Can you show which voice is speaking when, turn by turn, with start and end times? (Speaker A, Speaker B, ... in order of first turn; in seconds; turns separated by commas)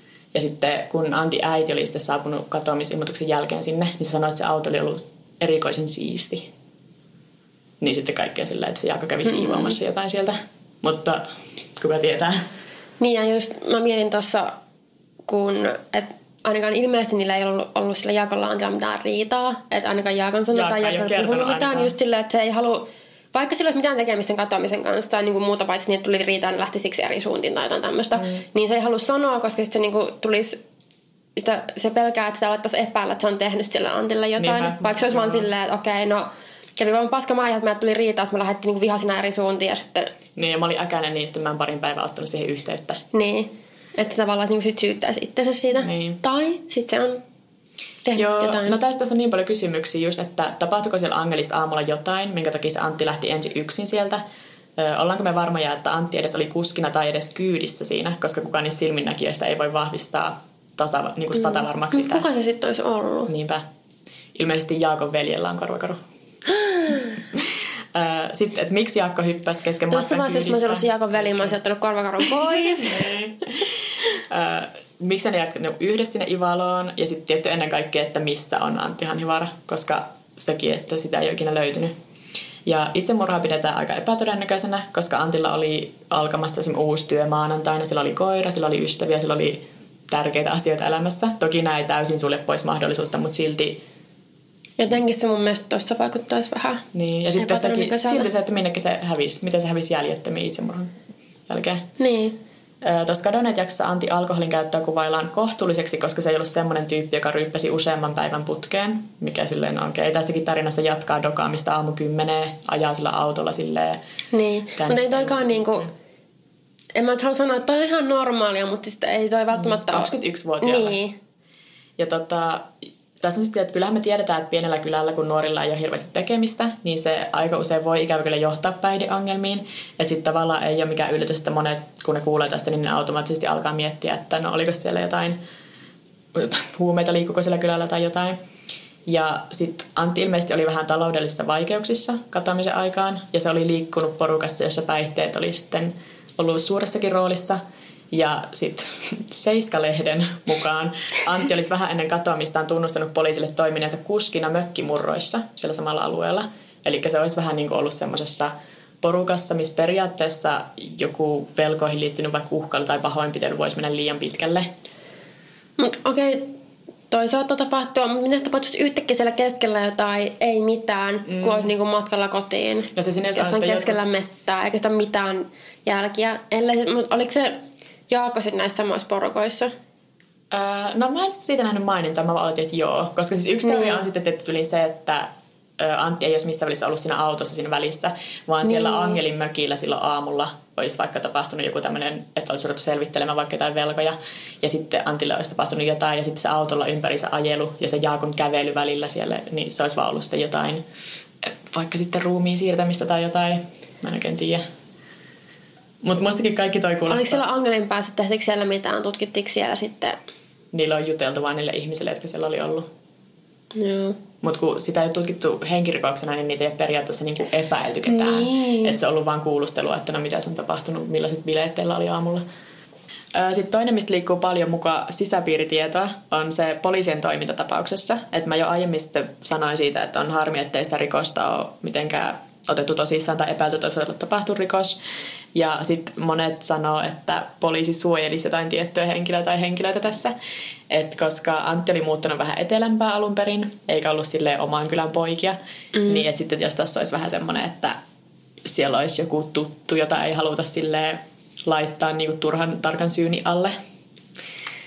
Speaker A: 0.3-6.5, Speaker A: 7.8-12.5, Speaker B: 9.2-9.7, Speaker B: 13.0-14.6, Speaker B: 15.2-30.6, Speaker A: 20.5-21.9, Speaker A: 28.2-28.4, Speaker B: 31.4-40.1, Speaker A: 34.4-35.5, Speaker A: 40.4-43.0, Speaker B: 43.1-47.2, Speaker A: 45.8-46.2, Speaker B: 48.0-48.8, Speaker A: 48.1-54.2, Speaker A: 54.8-62.3, Speaker B: 61.4-63.3, Speaker A: 63.2-63.6, Speaker A: 64.3-66.0, Speaker B: 66.6-67.1, Speaker A: 67.3-71.5, Speaker B: 69.9-73.0, Speaker A: 72.2-81.9, Speaker A: 82.7-93.8, Speaker B: 94.8-96.8, Speaker A: 96.9-100.9, Speaker B: 97.4-98.3, Speaker A: 101.5-101.8, Speaker B: 102.0-102.3, Speaker A: 102.8-114.0, Speaker B: 114.3-115.9, Speaker A: 114.8-115.9, Speaker B: 116.9-121.2, Speaker A: 119.5-121.0, Speaker A: 122.0-135.4, Speaker A: 136.3-138.4, Speaker A: 139.1-164.7, Speaker B: 165.8-166.5, Speaker B: 167.1-179.7, Speaker A: 171.2-171.7, Speaker A: 172.9-174.0, Speaker A: 180.5-200.8, Speaker B: 183.6-184.0, Speaker B: 188.6-189.2, Speaker A: 201.4-204.6, Speaker A: 206.0-207.4, Speaker B: 207.1-210.2, Speaker A: 210.7-212.9, Speaker B: 213.7-214.2, Speaker A: 214.4-222.4, Speaker B: 218.1-218.9, Speaker A: 223.3-234.9, Speaker A: 235.5-240.3, Speaker A: 240.9-248.0, Speaker B: 245.9-246.2, Speaker A: 248.6-253.8